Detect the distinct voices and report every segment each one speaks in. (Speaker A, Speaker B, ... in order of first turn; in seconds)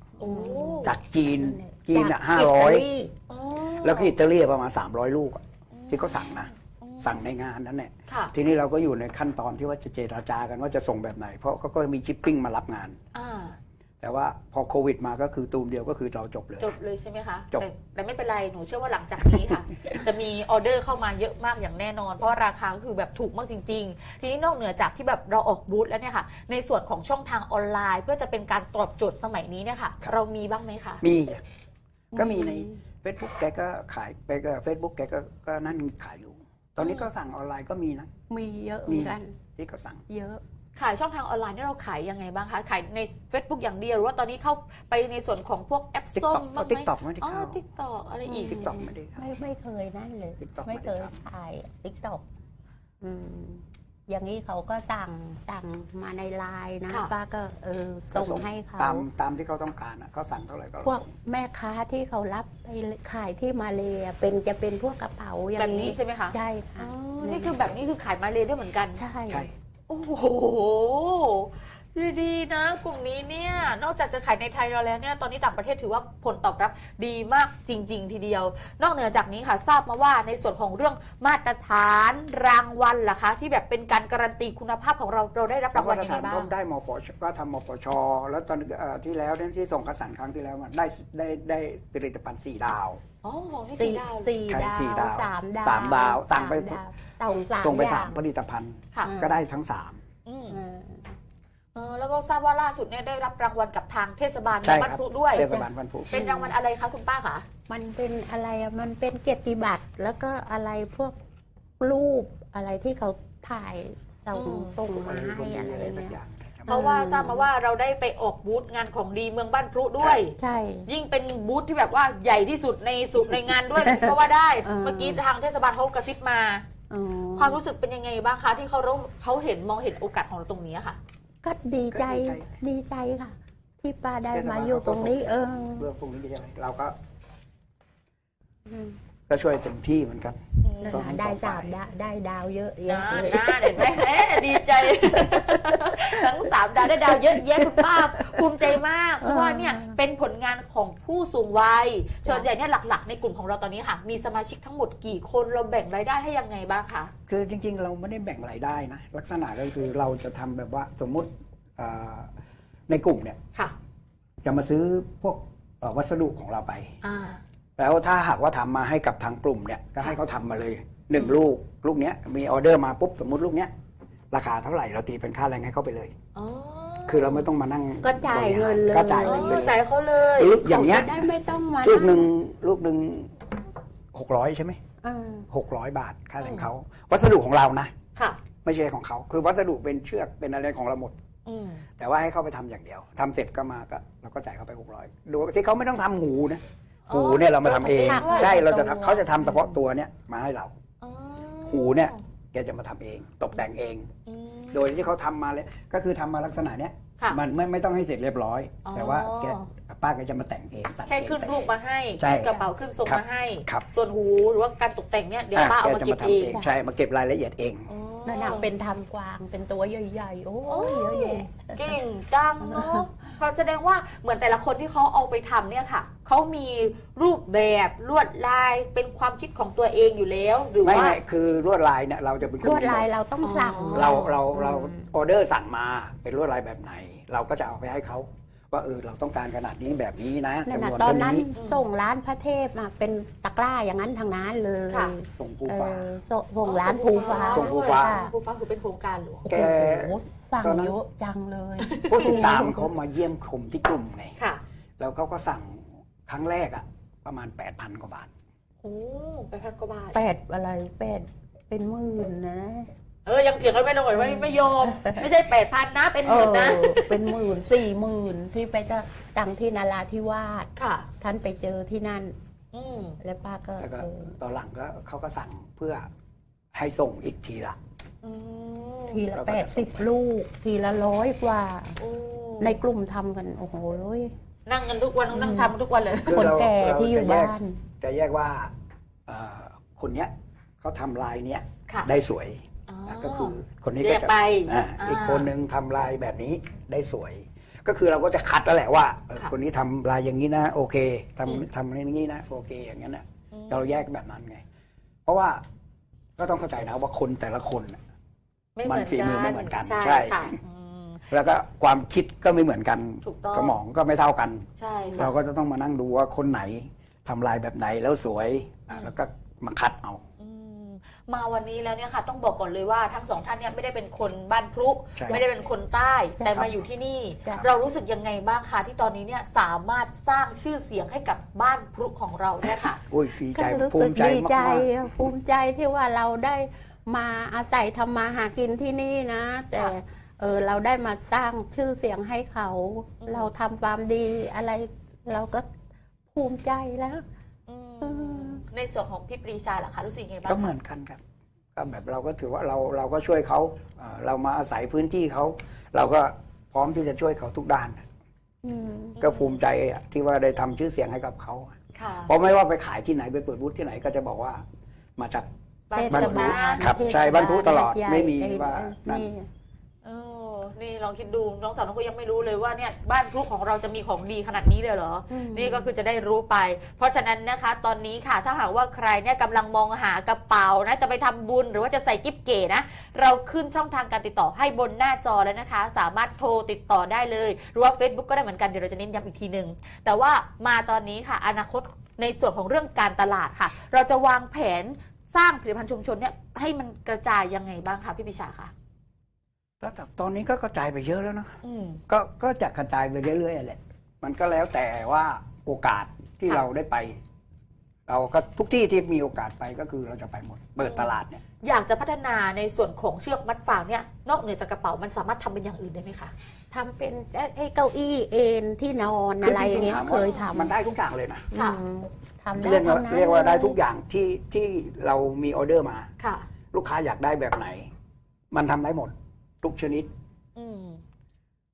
Speaker A: 0.2-3.1, 32.1-32.8, 38.3-39.4, 40.1-40.4, 48.3-52.2, 53.0-59.0, 60.8-67.5, 68.9-69.5, 93.7-98.2, 99.0-99.4, 100.5-101.2, 105.4-106.5, 107.7-111.2, 111.8-117.5, 120.4-120.9, 123.8-125.2, 126.9-127.6, 131.4-135.9, 138.7-139.0, 140.8-144.2, 145.1-146.1, 149.2-150.0, 178.0-179.7, 180.6-182.3, 185.0-185.5, 197.6-199.8, 212.4-212.7, 218.2-221.9, 222.6-223.0, 232.5-235.1, 240.7-248.3, 249.4-252.9, 260.1-262.9, 264.2-265.2, 266.2-272.3, 273.2-274.4, 279.1-282.0, 282.6-284.3, 285.3-285.8, 286.3-287.8, 326.4-326.7, 333.5-345.7, 346.3-347.2, 348.0-348.6, 358.6-359.2, 365.9-369.5, 375.3-375.9, 416.7-420.7, 421.5-423.8
Speaker B: 0.2-0.9, 3.3-4.1, 5.7-7.1, 8.1-8.3, 13.1-13.6, 16.6-31.0, 36.8-37.1, 40.7-48.6, 65.5-69.0, 69.9-86.5, 93.2-94.3, 100.2-100.6, 101.7-105.5, 106.1-107.5, 114.3-114.7, 116.7-120.3, 120.9-126.7, 127.3-131.0, 140.6-141.0, 142.9-157.1, 167.0-167.4, 176.3-177.4, 179.2-180.6, 186.4-186.7, 191.4-191.8, 197.1-198.5, 201.0-202.2, 204.2-205.0, 208.8-209.7, 211.1-216.6, 217.9-218.7, 220.7-231.2, 233.4-234.3, 241.5-241.8, 246.6-249.5, 251.8-252.6, 258.8-260.2, 263.2-267.3, 270.8-271.1, 272.7-273.2, 278.2-279.2, 282.0-282.8, 284.7-286.5, 292.9-295.5, 303.5-304.1, 308.8-311.3, 313.2-313.8, 314.8-315.3, 320.4-333.0, 343.2-343.5, 347.7-350.7, 359.2-359.6, 361.9-362.3, 365.9-367.2, 370.0-398.7, 401.6-402.0, 410.8-411.1, 411.6-416.3, 419.9-420.5, 421.5-421.8, 426.2-426.4, 430.6-431.0
Speaker C: 0.8-2.9, 3.8-13.0, 14.0-16.7, 31.0-31.4, 32.1-38.1, 38.9-40.0, 46.1-47.6, 48.4-49.3, 50.4-51.1, 58.1-61.1, 85.7-93.0, 94.5-96.8, 97.6-100.0, 104.6-106.3, 114.9-116.8, 131.9-132.5, 134.3-136.9, 139.3-141.7, 157.3-162.3, 162.9-163.4, 164.4-166.9, 167.8-173.7, 174.3-176.1, 177.1-179.8, 180.3-181.2, 181.8-183.3, 184.1-184.8, 185.5-187.9, 188.6-191.1, 192.0-200.7, 201.6-204.1, 204.7-211.6, 212.2-212.5, 213.0-213.8, 215.5-217.9, 230.8-233.1, 233.9-241.4, 245.3-246.1, 247.5-248.2, 249.5-250.9, 252.1-254.3, 255.0-258.3, 273.8-276.1, 276.7-277.8, 279.3-280.1, 286.2-288.7, 289.3-304.6, 305.2-305.6, 306.4-308.0, 308.8-310.6, 311.3-320.2, 325.1-325.4, 333.1-335.2, 350.4-351.2, 351.8-358.0, 359.2-364.6, 365.2-365.5, 366.1-369.3, 399.8-407.1, 408.1-411.4, 419.4-421.5, 422.6-426.1, 426.7-427.9, 428.5-430.1